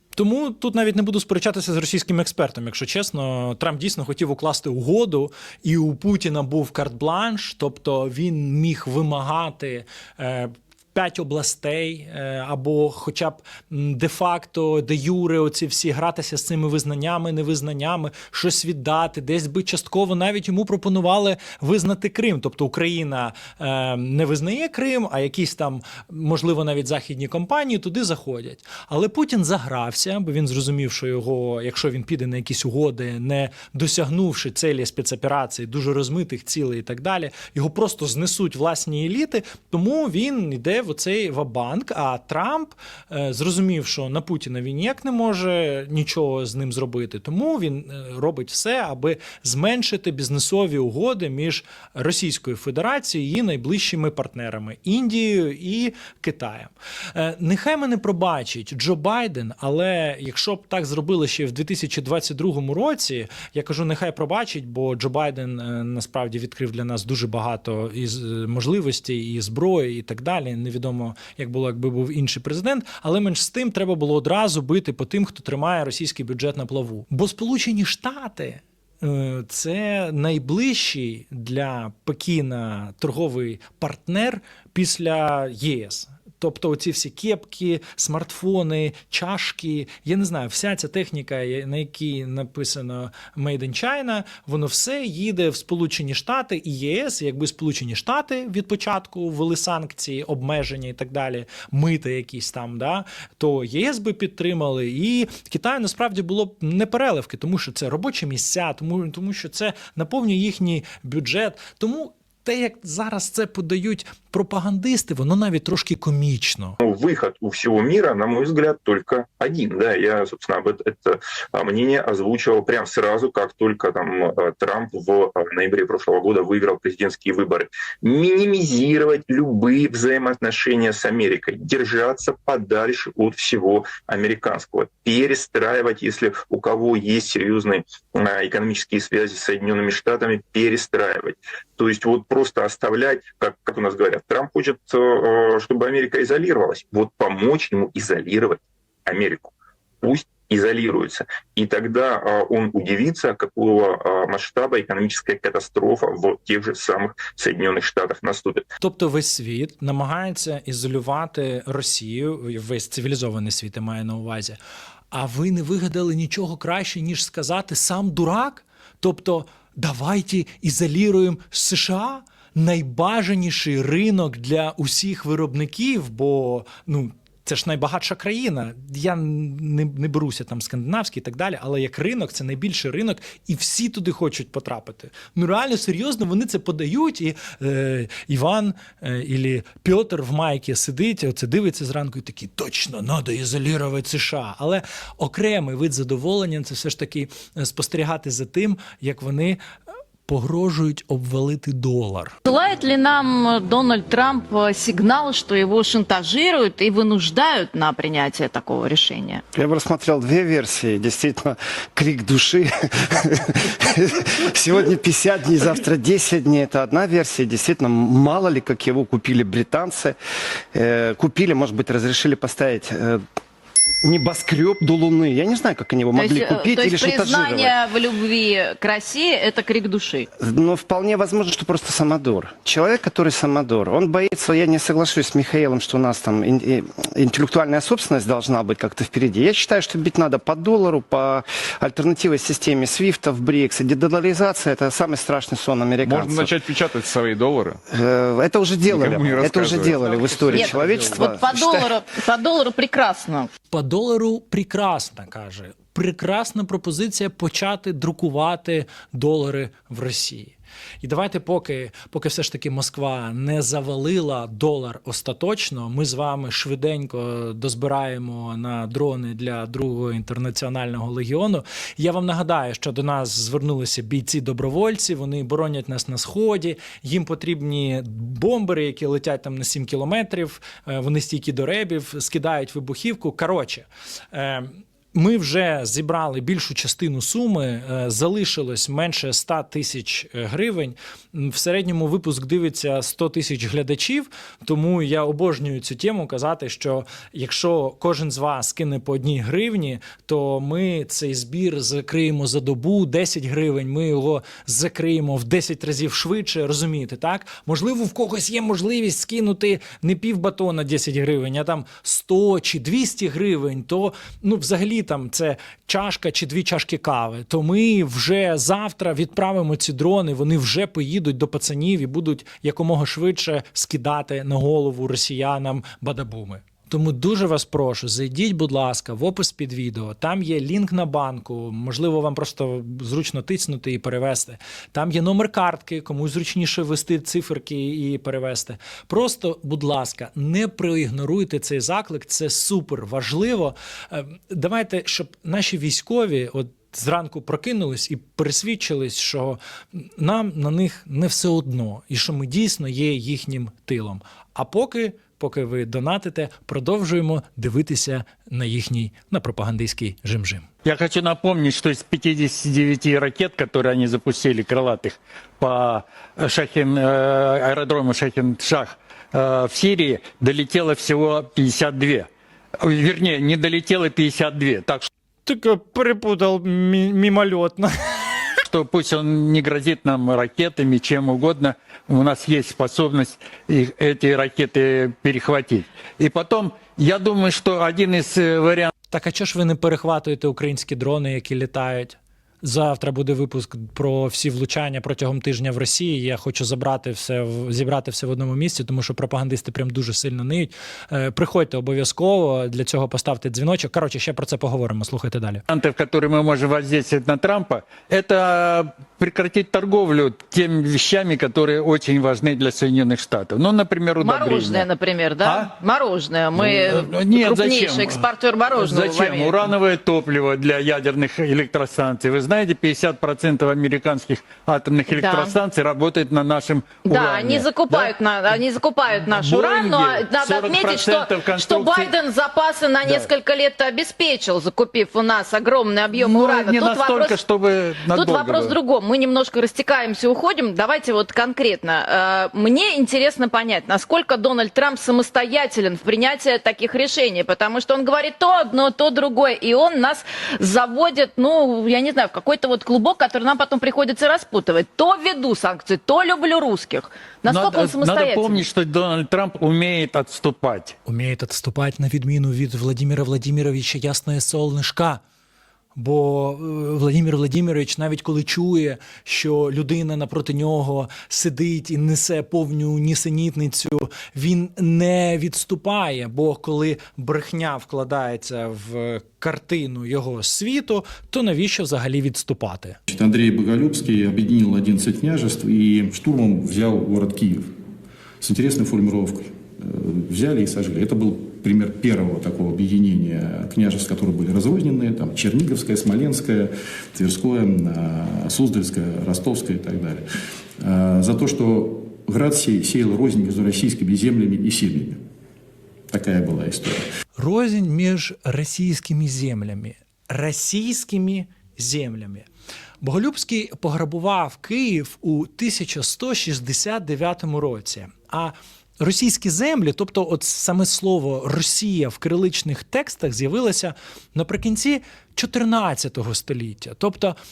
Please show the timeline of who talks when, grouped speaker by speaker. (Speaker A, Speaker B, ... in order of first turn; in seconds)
Speaker A: 0.1-116.8, 158.8-164.6, 165.1-199.6, 200.3-202.3, 253.7-360.7, 375.4-378.2, 389.1-405.6, 461.1-465.2, 465.9-483.0, 507.4-512.5, 513.0-527.4
Speaker B: 116.8-158.7
Speaker C: 202.4-209.4, 226.2-230.3, 250.5-253.5, 414.2-419.7, 425.1-425.5, 427.0-437.4, 438.1-458.6
Speaker D: 209.5-220.2, 220.7-223.2, 224.0-227.7, 230.4-246.6, 247.9-251.9
Speaker E: 246.0-247.8, 248.8-251.2
Speaker F: 360.8-372.3, 372.8-375.1, 378.7-388.9, 405.7-414.9, 415.4-415.7, 416.5-428.1, 429.1-432.1, 433.0-433.3, 436.1-438.7, 457.5-460.9
Speaker G: 483.1-487.7, 488.4-500.2, 500.8-505.2, 506.1-507.0